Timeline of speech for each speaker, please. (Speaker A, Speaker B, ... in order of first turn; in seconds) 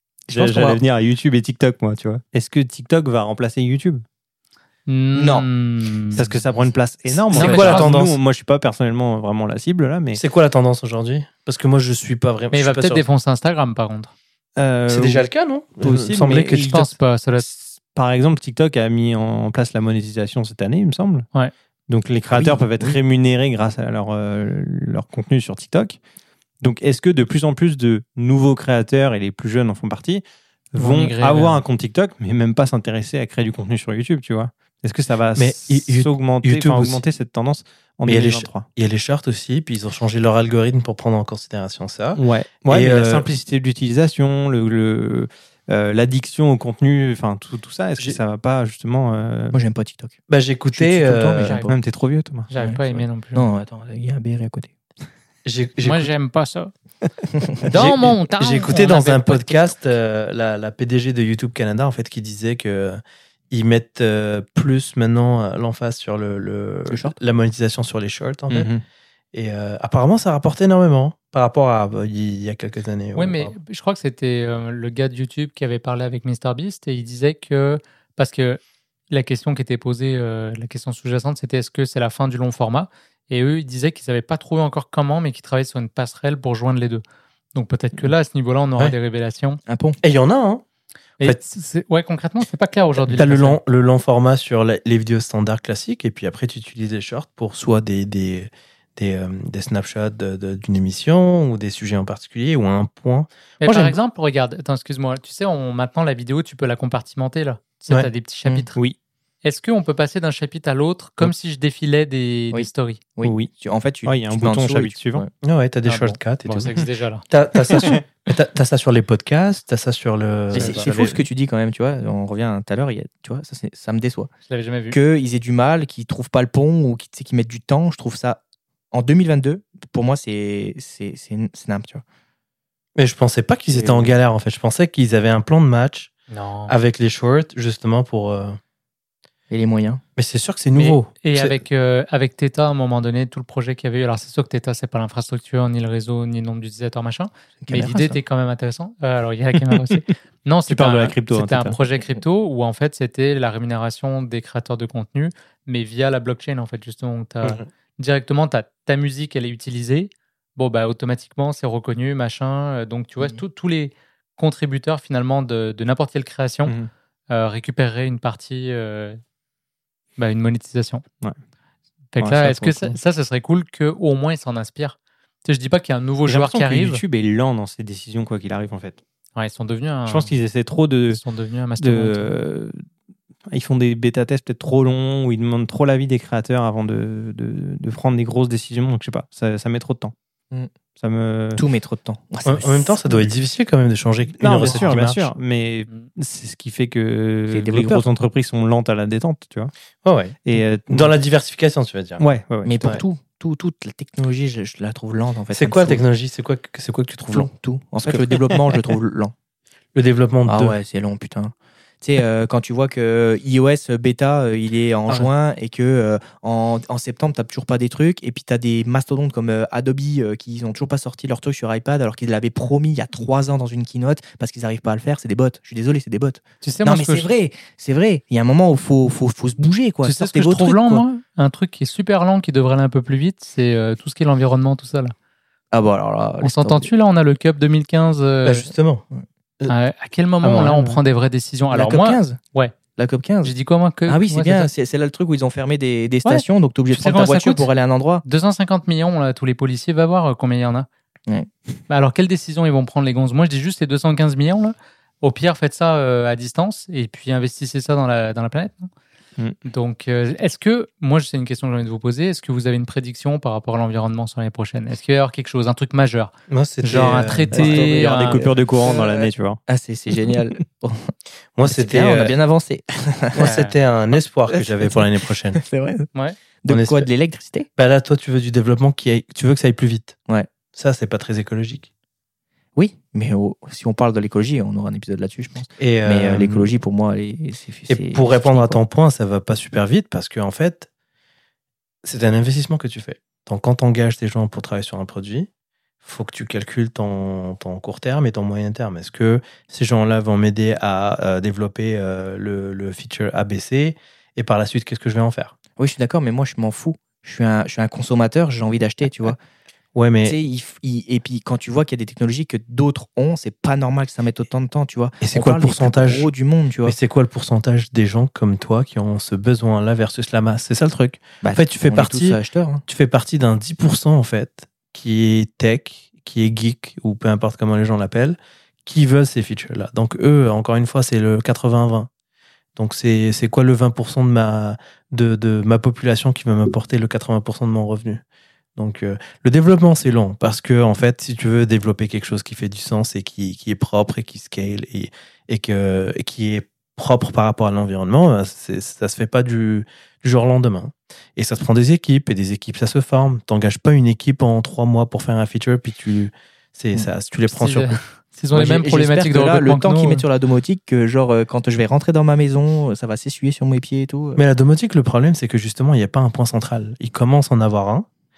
Speaker A: 0.3-4.0, 6.1-10.2, 14.6-15.2, 15.8-21.3, 21.9-26.0, 26.6-38.7, 42.1-49.6, 51.7-53.0, 68.5-68.8, 113.2-113.5, 114.0-115.2, 149.7-150.0, 150.7-151.8, 172.2-173.0, 176.2-179.0, 180.1-181.2, 181.8-182.8, 183.5-190.1, 191.0-191.6, 194.4-199.7, 200.4-201.1, 202.2-203.0, 208.0-208.8, 240.4-241.0, 267.6-269.6
Speaker B: 0.3-0.8, 5.1-5.5, 22.3-23.0, 49.5-50.1, 50.7-51.8, 53.3-54.7, 66.9-67.2, 89.7-90.0, 112.5-115.3, 120.5-124.3, 124.9-132.0, 133.7-134.1, 139.5-140.0, 147.6-148.2, 191.6-193.3, 197.5-198.0, 202.6-206.0, 207.3-209.3, 210.4-231.0, 235.7-236.9, 241.7-242.4, 242.9-243.5, 244.1-248.2, 267.5-273.6, 274.5-275.0, 275.5-276.1, 276.6-277.7, 282.8-288.8, 305.8-309.4, 310.2-316.9, 321.4-322.8, 358.5-364.4
Speaker C: 4.9-6.3, 7.3-7.9, 12.5-14.1, 16.3-17.5, 30.8-31.6, 51.4-51.7, 52.5-53.4, 55.8-56.7, 57.5-59.7, 73.2-87.0, 87.5-89.6, 91.2-93.6, 103.6-108.8, 109.4-113.0, 115.8-118.0, 120.5-120.8, 124.5-125.0, 136.3-136.7, 140.8-166.7, 167.3-169.2, 170.2-171.0, 172.1-177.0, 179.3-180.3, 181.1-182.3, 226.6-227.3, 230.0-235.1, 236.4-238.7, 239.7-242.7, 243.4-244.7, 246.2-247.7, 248.2-250.9, 251.9-258.9, 259.6-268.4, 273.4-273.7, 357.5-360.2
Speaker D: 7.3-8.2, 10.1-13.0, 14.9-16.8, 35.4-37.0, 38.1-43.3, 50.3-51.6, 55.4-56.1, 57.7-68.7, 69.3-73.5, 90.0-90.6, 93.0-104.0, 115.4-116.7, 117.3-121.2, 132.9-136.1, 136.7-138.6, 140.2-141.6, 192.4-195.3, 200.0-202.2, 205.5-207.5, 209.9-210.8, 238.4-239.0, 266.5-267.7, 271.6-272.4, 273.3-275.6, 276.7-277.1, 277.8-280.2, 280.7-281.9, 285.8-286.7, 287.9-290.9, 292.0-295.5, 296.0-305.5, 309.9-310.4, 315.2-316.3, 316.8-332.1, 332.8-338.2, 338.8-358.0, 364.4-368.1